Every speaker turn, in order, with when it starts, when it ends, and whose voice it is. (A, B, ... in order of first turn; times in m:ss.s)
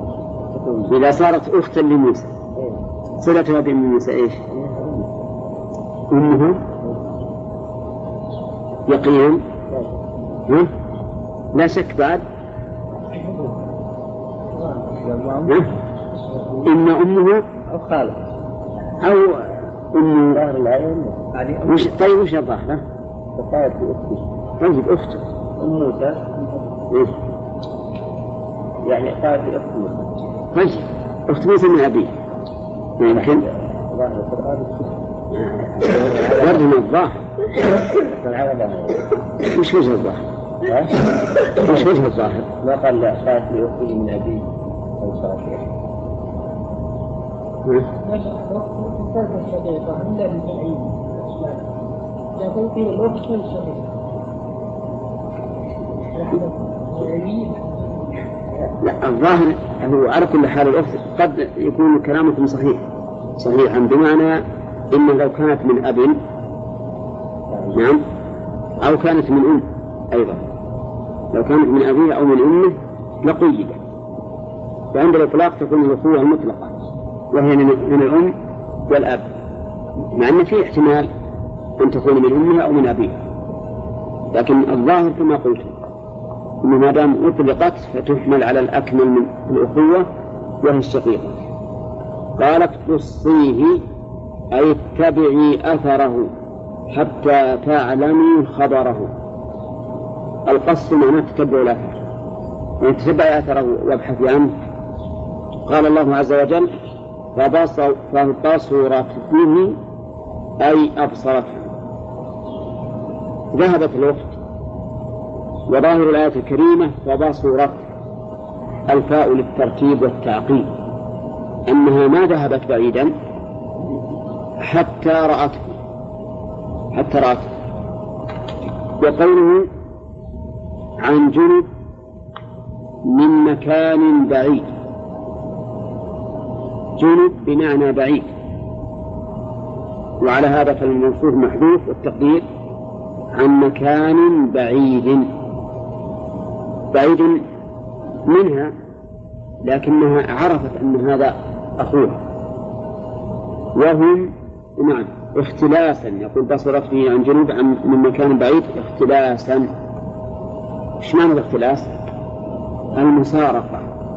0:00.5-0:00.9 A
0:00.9-0:02.3 B
0:03.2-0:04.4 B
0:04.5-0:05.0 A
0:06.1-0:06.6 B
0:08.9-0:09.4 B
0:11.5-0:12.2 B
0:15.0-0:15.6 A
0:16.6-0:17.4 B
0:17.7-0:18.2 A
0:19.0-0:20.4 B
0:20.4-0:21.9 A
0:21.6-0:22.8 B
0:23.4-0:24.2 A
0:24.6-0:25.2 B
0:25.6-0:26.3 A
0:28.8-0:30.2 A
0:30.5-0:32.1 B
0:33.0-0:33.4 B
0:33.1-0:34.9 A
0:35.3-0:37.1 B
0:35.8-0:36.6 A
0:38.1-0:39.0 A
0:39.4-0:40.2 B
0:40.6-0:40.9 A
0:41.6-0:42.4 B
0:41.6-0:44.4 A
0:45.0-0:45.6 A
0:48.0-0:51.6 C
0:52.4-0:53.8 C
0:56.1-0:57.8 C
0:58.8-1:02.8 B
1:03.4-1:06.2 B
1:07.7-1:08.0 B
1:08.8-1:10.4 B
1:11.3-1:13.8 B
1:14.9-1:16.7 B
1:17.3-1:18.3 B
1:18.9-1:19.3 B
1:20.1-1:21.1 B
1:21.8-1:23.2 B
1:24.3-1:25.7 B
1:26.6-1:30.1 B
1:30.6-1:31.4 B
1:32.4-1:33.8 B
1:34.5-1:36.3 B
1:36.9-1:39.1 B
1:40.4-1:42.0 B
1:42.8-1:44.5 B
1:45.6-1:46.7 B
1:47.3-1:49.8 B
1:50.6-1:51.7 B
1:53.5-1:54.4 B
1:55.7-1:57.8 B
1:58.9-2:00.7 B
2:01.7-2:03.1 B
2:04.6-2:05.7 B
2:06.9-2:07.5 B
2:09.0-2:09.7 B
2:11.0-2:11.7 B
2:13.1-2:14.7 B
2:17.0-2:18.3 B
2:20.2-2:22.4 B
2:23.3-2:25.3 B
2:26.9-2:27.4 B
2:28.2-2:28.7 B
2:29.6-2:32.2 B
2:33.8-2:39.7 B
2:41.0-2:41.9 B
2:42.9-2:43.8 B